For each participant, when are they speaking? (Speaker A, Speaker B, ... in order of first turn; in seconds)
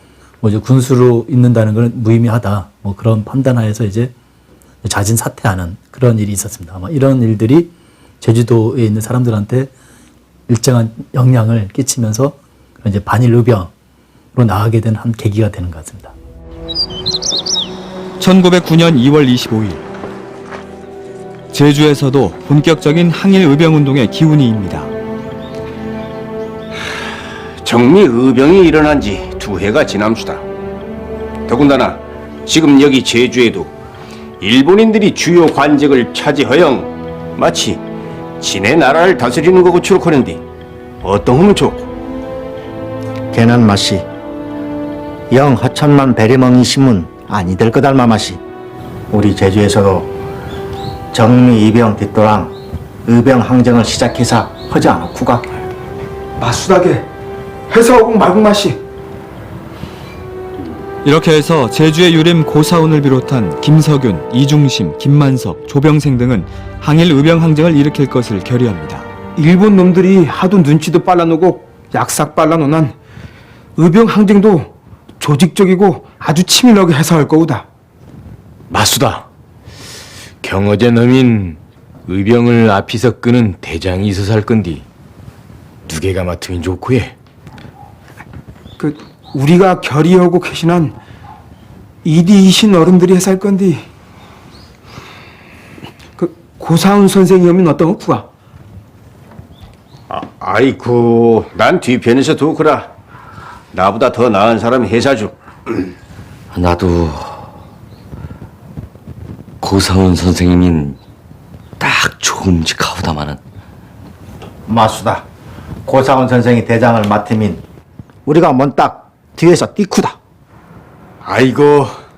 Speaker A: 0.4-4.1, 4.8-9.7, 10.5-13.7, 14.3-16.1
Speaker B: 18.2-19.8, 21.5-24.9, 61.0-69.1
Speaker C: 27.6-30.4, 31.5-33.7, 34.4-37.8, 38.4-40.4, 41.0-41.9, 100.1-102.9, 103.7-105.3, 121.2-121.9
Speaker D: 43.3-44.0, 45.3-48.4, 49.1-50.1, 51.1-52.5, 53.0-55.5, 114.7-115.2, 115.8-117.6, 118.2-120.2
Speaker E: 56.4-57.1, 57.7-58.8, 69.3-72.9, 73.8-77.6, 88.8-90.9, 92.0-93.8, 96.2-98.3
Speaker F: 78.7-79.2, 80.4-84.8, 85.8-87.1
Speaker G: 106.5-107.4, 109.6-111.0, 111.8-113.4